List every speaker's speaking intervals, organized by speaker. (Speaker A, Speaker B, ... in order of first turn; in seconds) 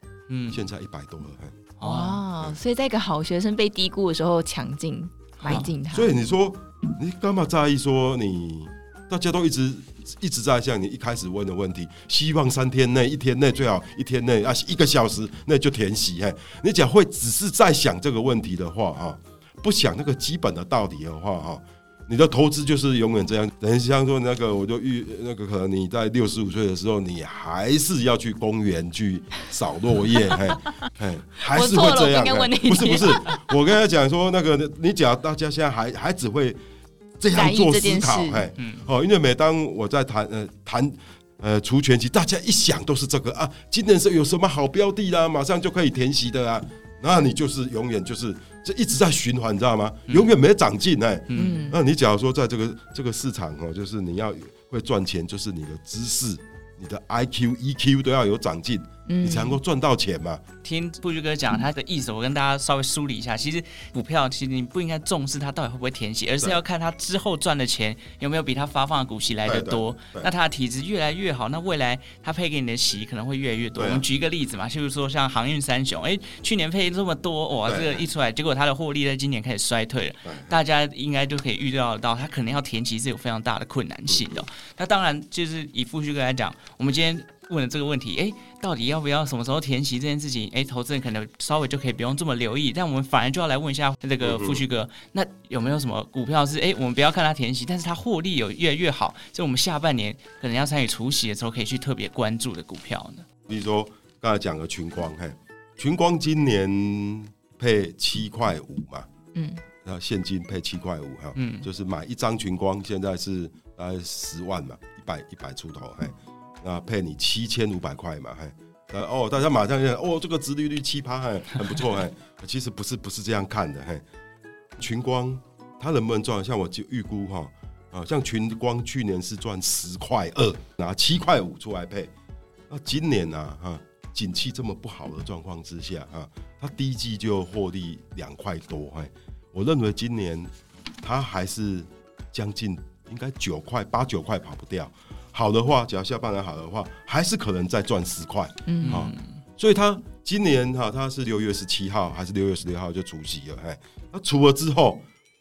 Speaker A: 0.3-0.6, 1.8-2.2, 5.4-5.7, 38.6-38.9, 51.3-51.6, 60.6-103.3, 111.4-111.7, 148.8-149.2
Speaker B: 0.5-1.7, 5.5-36.6, 37.2-60.4, 69.5-70.3, 73.8-74.0, 77.7-78.0, 80.3-80.6, 84.1-84.4, 94.2-94.6, 103.5-109.1, 109.8-124.0, 124.8-132.1, 132.7-155.0
Speaker C: 1.8-6.1, 31.5-33.5, 37.3-38.5, 51.4-51.8, 59.1-59.6, 109.3-109.6, 148.7-149.0